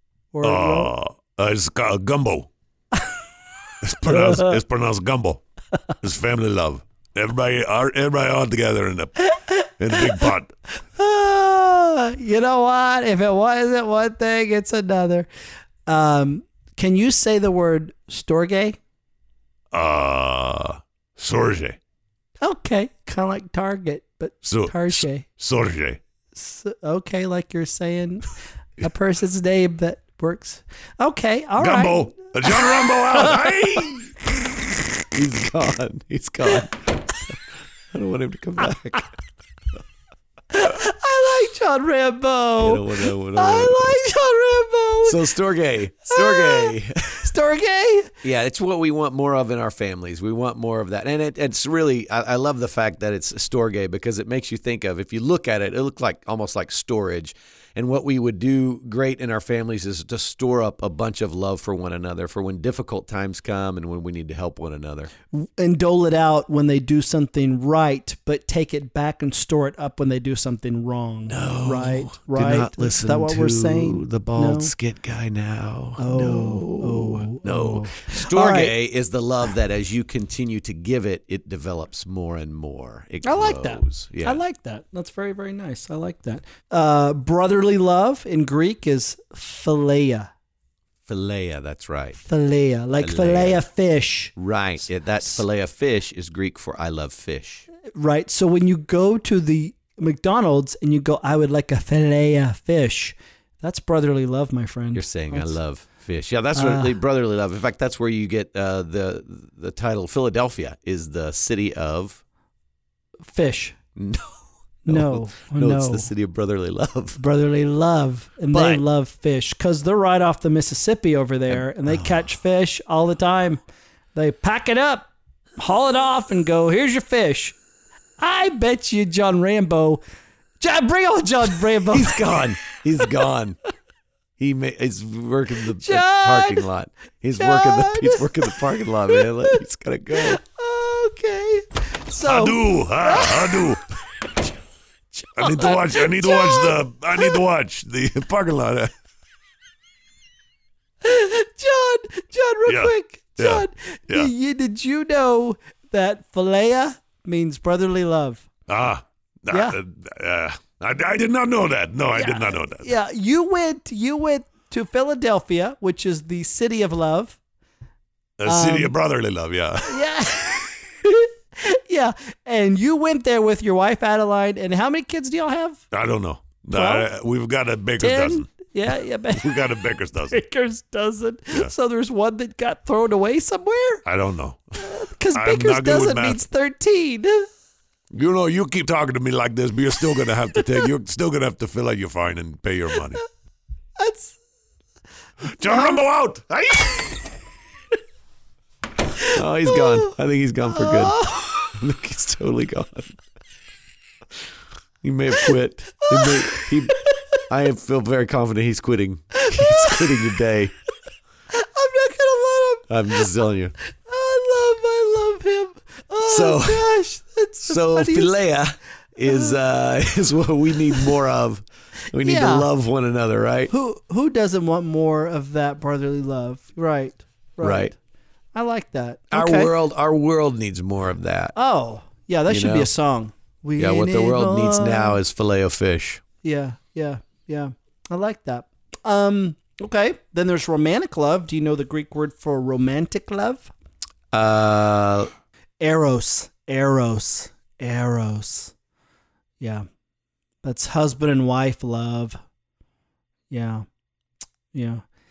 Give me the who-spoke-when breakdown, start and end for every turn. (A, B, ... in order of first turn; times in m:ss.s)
0:00.3-0:00.9 A
0:00.4-0:02.5 B
0:03.8-0:05.4 B
0:04.0-0:04.6 A
0:06.0-0:10.5 B
0:09.3-0:10.3 A
0:11.0-0:15.3 A
0:15.8-0:18.8 A
0:19.7-0:21.8 B
0:22.4-0:25.3 A
0:24.4-0:26.0 B
0:26.3-0:33.5 A
0:31.6-0:34.1 B
0:35.1-0:37.3 C
0:37.9-0:39.1 C
0:40.5-0:45.3 A
0:42.6-0:44.0 C
0:45.0-0:47.3 C
0:46.0-0:48.1 A
0:48.2-1:05.1 C
1:05.3-1:14.7 A
1:11.3-1:24.4 C
1:16.0-1:18.7 A
1:23.2-1:30.3 A
1:31.1-1:32.2 C
1:32.2-1:34.3 A
1:33.0-1:33.6 C
1:34.4-1:37.6 C
1:37.9-1:45.6 A
1:44.9-1:52.2 C
1:46.5-1:47.0 A
1:53.2-1:53.8 A
1:54.0-1:57.2 C
1:54.8-1:56.1 A
1:57.2-2:03.6 A
1:58.5-1:58.8 C
2:01.5-2:02.1 C
2:04.1-2:07.6 A
2:08.2-2:10.0 A
2:10.6-2:12.4 A
2:11.9-2:13.6 C
2:14.4-2:20.4 C
2:15.8-2:16.6 A
2:17.4-2:19.6 A
2:20.1-2:23.7 A
2:22.2-2:23.8 B
2:25.1-2:27.4 A
2:25.4-2:28.9 B
2:31.0-2:38.5 A
2:32.7-2:34.3 B
2:38.7-2:42.9 B
2:39.5-2:39.8 A
2:42.1-2:47.4 A
2:48.4-2:50.0 B
2:48.4-2:48.9 A
2:49.8-2:55.8 A
2:55.9-2:58.5 B
2:56.7-2:57.1 A
2:58.0-2:59.7 A
2:59.4-3:00.4 B
3:00.3-3:04.0 A
3:04.0-3:06.4 B
3:04.8-3:07.5 A
3:08.1-3:13.2 B
3:10.6-3:10.8 A
3:14.0-3:14.4 A
3:15.5-3:17.3 B
3:15.6-3:16.0 A
3:19.2-3:20.1 A
3:19.3-3:23.2 C
3:20.7-3:21.7 A
3:25.0-3:30.7 C
3:26.0-3:26.7 A
3:29.4-3:30.3 A
3:31.5-3:38.4 A
3:32.9-3:33.7 C
3:36.2-3:36.9 C
3:37.6-3:43.7 C
3:39.2-3:39.5 A
3:42.2-3:42.7 A
3:43.7-3:48.0 A
3:47.6-3:47.9 C
3:48.5-3:49.7 A
3:49.3-3:51.5 C
3:51.5-3:55.2 A
3:52.5-3:52.9 C
3:53.8-3:56.2 C
3:56.4-4:03.7 A
4:04.3-4:05.3 C
4:05.8-4:08.7 A
4:09.6-4:09.8 A
4:10.6-4:12.4 A
4:13.5-4:13.8 A
4:14.7-4:15.0 A